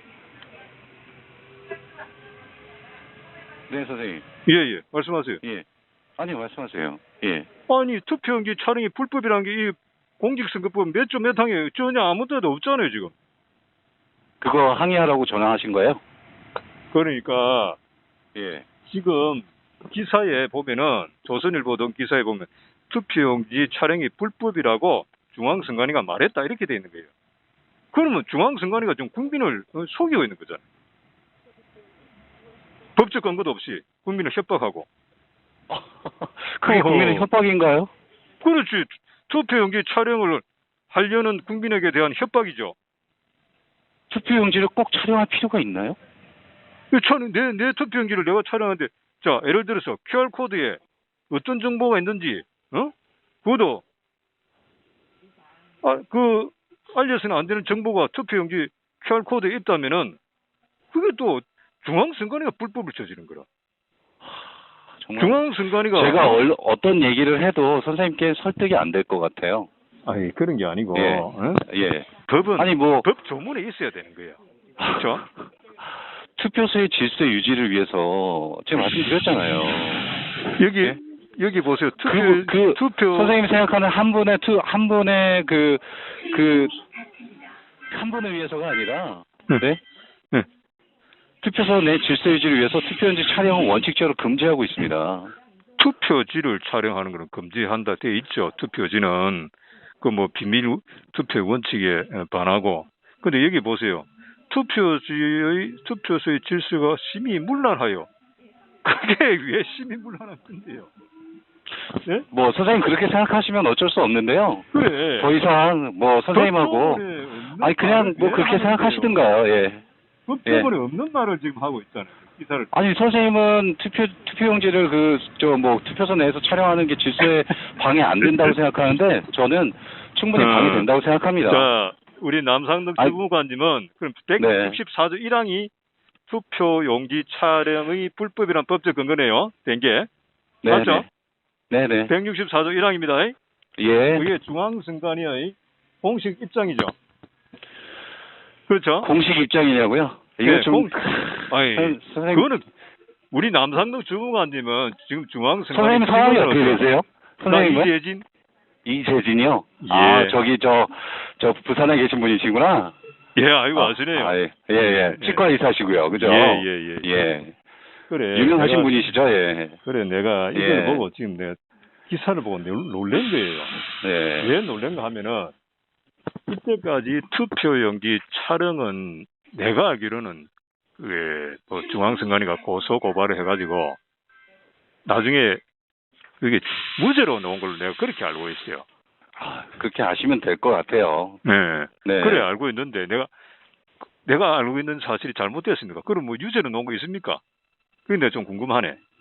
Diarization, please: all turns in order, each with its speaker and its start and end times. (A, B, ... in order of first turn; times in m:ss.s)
0:03.7-0:04.2 A
0:04.5-0:05.4 B
0:06.2-0:07.5 A
0:07.7-0:13.1 B
0:14.4-0:16.0 A
0:16.9-0:17.8 B
0:18.4-0:18.6 A
0:18.8-0:27.1 B
0:27.9-0:30.6 B
0:33.0-0:34.9 B
0:35.7-0:37.9 A
0:36.6-0:37.3 B
0:38.4-0:42.8 B
0:44.1-0:46.0 A
0:46.9-0:50.8 B
0:51.3-0:53.8 B
0:55.8-1:00.2 B
1:00.9-1:03.5 B
1:05.0-1:09.7 A
1:05.2-1:06.4 B
1:10.1-1:11.6 B
1:10.9-1:13.1 A
1:12.3-1:15.3 B
1:14.8-1:15.3 A
1:16.4-1:20.2 A
1:20.6-1:23.4 B
1:22.0-1:26.8 A
1:27.9-1:29.8 A
1:31.4-1:35.3 A
1:35.8-1:48.1 B
1:48.8-1:50.9 B
1:52.3-1:59.8 A
1:54.7-1:55.3 B
1:56.3-1:59.2 B
2:00.3-2:02.7 B
2:00.5-2:00.7 A
2:02.7-2:11.7 A
2:08.3-2:08.5 B
2:10.4-2:10.9 B
2:11.5-2:15.7 B
2:14.4-2:14.8 A
2:16.3-2:20.1 B
2:20.6-2:21.1 A
2:20.7-2:21.1 B
2:21.7-2:22.1 A
2:22.1-2:23.4 B
2:23.8-2:24.3 A
2:24.1-2:26.9 B
2:28.7-2:29.1 B
2:29.0-2:32.5 A
2:30.4-2:31.0 B
2:31.5-2:32.7 B
2:33.3-2:36.9 B
2:35.7-2:37.9 A
2:37.4-2:38.2 B
2:38.8-2:43.0 A
2:39.8-2:40.4 B
2:43.4-2:45.5 B
2:43.8-2:47.5 A
2:46.1-2:47.1 B
2:48.1-2:49.1 B
2:48.3-2:49.8 A
2:49.8-2:53.8 B
2:50.5-2:51.1 A
2:54.0-2:54.5 A
2:54.4-2:55.5 B
2:56.5-3:04.0 B
3:05.1-3:05.6 B
3:06.4-3:08.8 B
3:09.4-3:11.4 A
3:11.4-3:13.3 B
3:12.0-3:12.5 A
3:14.2-3:17.4 B
3:18.1-3:19.0 B